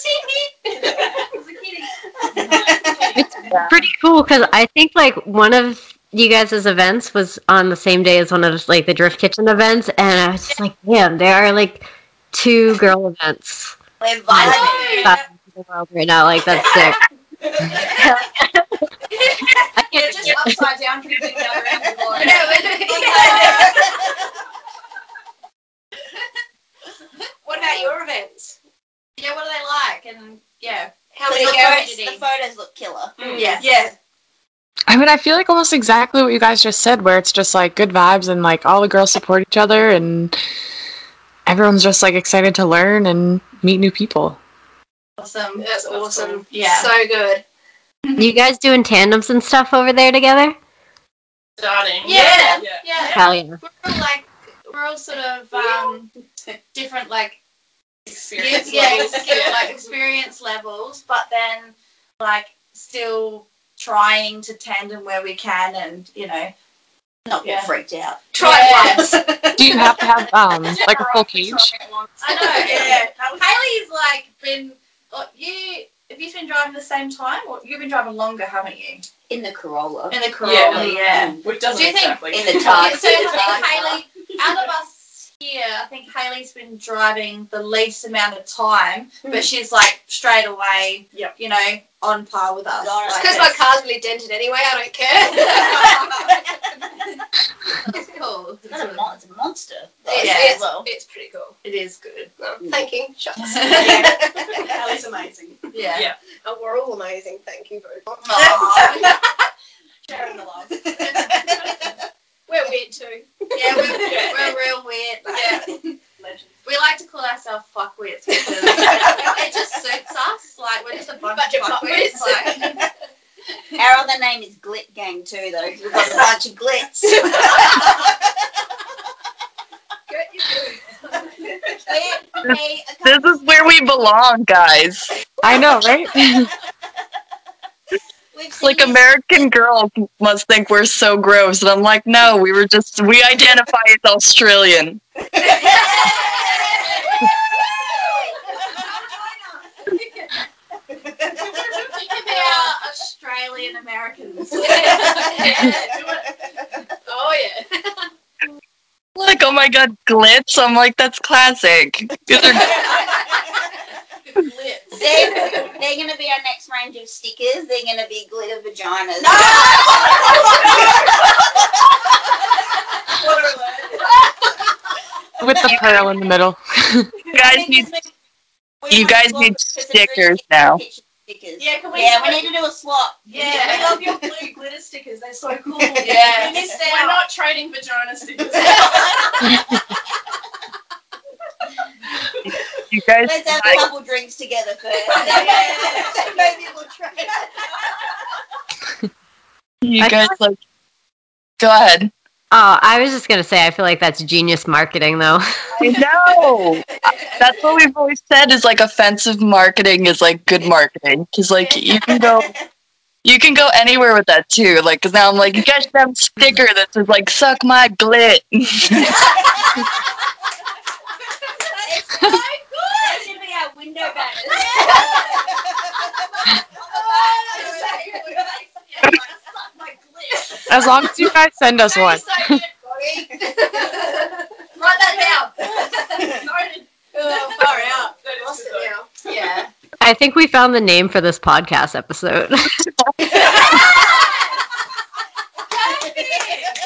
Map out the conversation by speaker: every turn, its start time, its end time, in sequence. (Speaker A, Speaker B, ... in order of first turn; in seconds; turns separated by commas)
Speaker A: 0.8-3.5, Speaker B: 2.4-2.9, Speaker C: 3.1-13.8, Speaker B: 14.0-15.1, Speaker C: 14.3-17.0, Speaker D: 14.4-15.2, Speaker C: 17.6-18.7, Speaker D: 19.1-19.6, Speaker C: 19.7-20.6, Speaker A: 19.9-22.6, Speaker D: 22.1-24.0, Speaker E: 22.2-23.8, Speaker B: 23.1-24.1, Speaker E: 27.4-28.6, Speaker D: 29.2-32.2, Speaker E: 31.1-31.9, Speaker B: 31.3-33.6, Speaker A: 33.2-33.5, Speaker D: 33.3-33.7, Speaker E: 33.6-34.0, Speaker F: 34.9-40.4, Speaker F: 41.5-44.4, Speaker D: 45.2-46.9, Speaker E: 45.6-47.4, Speaker C: 48.2-50.6, Speaker A: 51.6-53.2, Speaker D: 52.0-56.1, Speaker E: 52.0-52.6, Speaker C: 53.0-53.6, Speaker D: 56.7-57.4, Speaker A: 58.1-59.7, Speaker D: 58.3-66.5, Speaker E: 58.7-59.6, Speaker B: 67.3-69.4, Speaker D: 67.4-67.7, Speaker E: 68.3-70.0, Speaker D: 68.4-69.2, Speaker F: 69.6-71.7, Speaker A: 70.6-73.4, Speaker D: 72.2-79.0, Speaker E: 72.7-73.0, Speaker B: 79.3-81.5, Speaker D: 80.1-93.6, Speaker A: 80.4-83.4, Speaker B: 82.3-84.0, Speaker B: 92.8-93.6, Speaker E: 93.1-96.4, Speaker D: 97.7-99.1, Speaker B: 98.7-100.5, Speaker E: 100.1-101.6, Speaker D: 100.2-100.9, Speaker D: 101.6-102.3, Speaker E: 102.4-104.7, Speaker D: 103.4-104.1, Speaker A: 103.7-106.2, Speaker D: 105.7-106.1, Speaker E: 106.4-109.2, Speaker D: 108.2-109.2, Speaker B: 108.4-109.0, Speaker A: 110.1-110.9, Speaker D: 111.0-111.5, Speaker B: 111.0-111.7, Speaker E: 112.5-114.5, Speaker D: 113.5-116.0, Speaker A: 113.9-114.5, Speaker E: 115.3-115.6, Speaker A: 116.2-116.5, Speaker D: 116.7-122.8, Speaker E: 118.6-119.2, Speaker E: 121.2-122.9, Speaker B: 123.8-128.3, Speaker E: 127.2-127.9, Speaker E: 130.1-131.9, Speaker B: 131.9-133.6, Speaker G: 132.5-135.1, Speaker F: 135.4-136.5, Speaker B: 138.3-139.5, Speaker G: 138.6-145.0, Speaker B: 145.4-149.4, Speaker D: 145.6-147.3, Speaker B: 150.9-151.7, Speaker D: 151.5-155.9, Speaker E: 154.6-155.8, Speaker B: 154.6-155.9, Speaker A: 155.4-156.3, Speaker E: 157.1-158.1, Speaker G: 159.2-163.2, Speaker D: 164.3-165.6, Speaker B: 164.9-170.9, Speaker D: 169.2-170.9, Speaker A: 169.4-170.8, Speaker A: 173.1-174.0, Speaker F: 175.4-177.1, Speaker B: 175.4-175.8, Speaker G: 175.7-176.0, Speaker G: 177.3-177.9, Speaker B: 177.3-178.1, Speaker B: 178.8-184.2, Speaker G: 178.9-180.8, Speaker A: 181.6-182.5, Speaker D: 183.3-184.0, Speaker A: 183.4-189.6, Speaker B: 185.9-187.2, Speaker D: 186.0-186.7, Speaker G: 192.8-193.8, Speaker B: 193.2-197.5, Speaker A: 195.2-195.8, Speaker D: 195.3-196.0, Speaker E: 195.7-196.1, Speaker G: 199.8-200.6, Speaker C: 200.0-200.3, Speaker G: 201.6-202.1, Speaker C: 202.5-205.4, Speaker G: 205.8-206.9, Speaker G: 207.4-212.5, Speaker B: 212.1-212.6, Speaker G: 213.2-219.3, Speaker B: 221.8-222.3, Speaker D: 222.2-223.2, Speaker B: 223.0-226.1, Speaker D: 224.6-225.2, Speaker B: 226.8-228.6, Speaker D: 226.9-229.1, Speaker F: 230.7-232.6, Speaker A: 231.9-232.4, Speaker B: 232.9-233.6, Speaker E: 233.4-234.3, Speaker D: 234.8-235.9, Speaker A: 235.9-238.9, Speaker E: 237.1-239.1, Speaker D: 239.2-239.7, Speaker C: 240.0-242.8, Speaker D: 243.3-244.6, Speaker D: 245.7-246.8, Speaker B: 246.0-246.4